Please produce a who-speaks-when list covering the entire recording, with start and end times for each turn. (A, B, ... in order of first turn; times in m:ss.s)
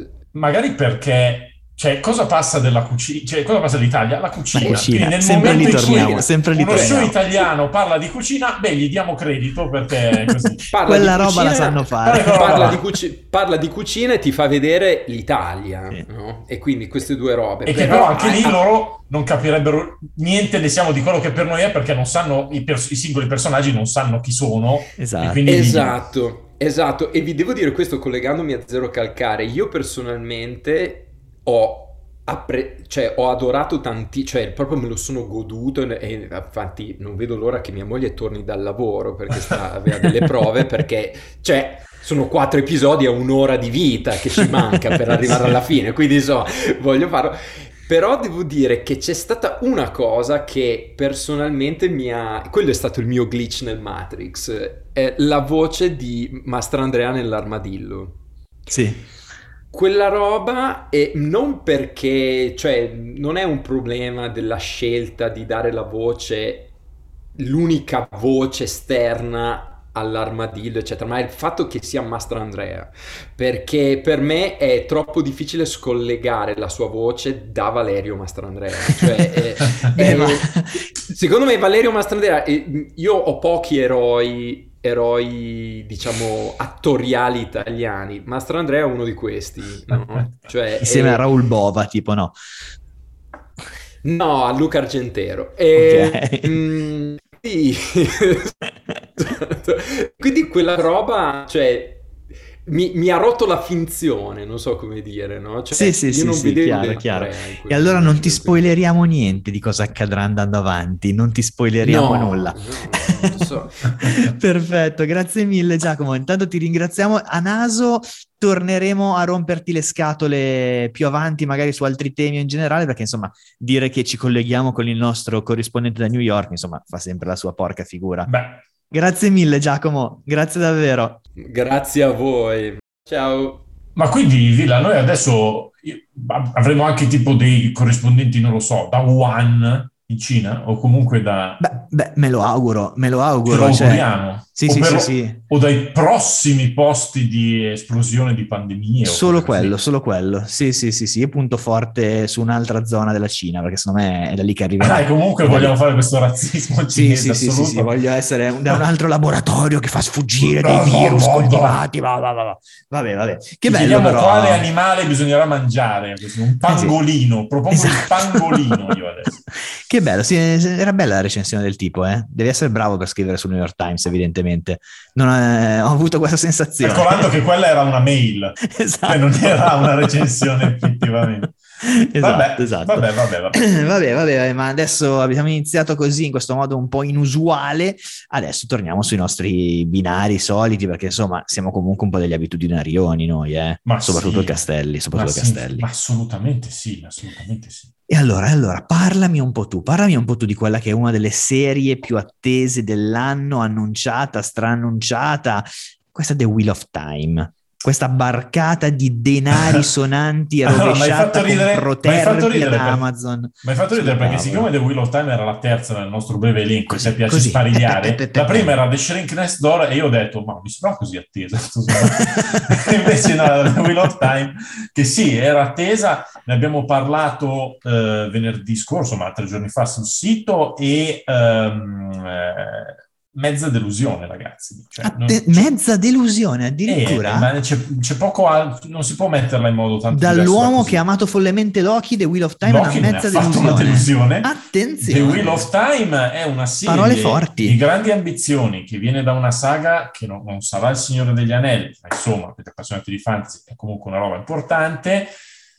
0:00.3-0:10.7 A
0:04.5-0:07.2 B
0:04.6-0:07.1 C
0:10.1-0:12.8 B
0:10.7-0:18.6 C
0:12.0-0:12.8 A
0:17.6-0:26.0 A
0:25.0-0:25.5 B
0:25.4-0:58.2 C
0:58.7-0:59.0 B
0:59.7-1:06.7 C
1:07.4-1:31.2 C
1:19.9-1:20.8 B
1:30.8-1:32.3 B
1:34.0-1:38.6 C
1:35.7-1:36.6 B
1:39.2-1:42.0 C
1:42.6-1:48.8 C
1:45.7-2:08.3 B
1:51.8-1:53.8 C
2:08.3-2:08.6 A
2:08.9-2:11.2 B
2:11.4-2:13.6 C
2:14.0-2:21.7 A
2:21.6-2:25.4 B
2:23.4-2:29.7 A
2:29.0-2:35.8 B
2:34.8-2:37.9 A
2:36.9-2:44.7 B
2:40.4-2:41.8 A
2:43.6-2:49.4 A
2:46.6-2:46.9 B
2:47.7-2:48.8 B
2:49.7-2:57.3 B
2:56.8-3:03.6 A
2:58.7-3:15.9 B
3:13.8-3:17.9 A
3:18.1-3:34.7 B
3:29.5-3:29.8 A
3:30.6-3:33.0 A
3:33.6-3:55.7 A
3:36.9-3:38.8 B
3:42.0-3:43.1 B
3:55.0-3:57.5 B
3:56.8-4:01.0 A
4:00.1-4:05.7 B
4:02.6-4:15.3 A
4:06.8-4:07.8 B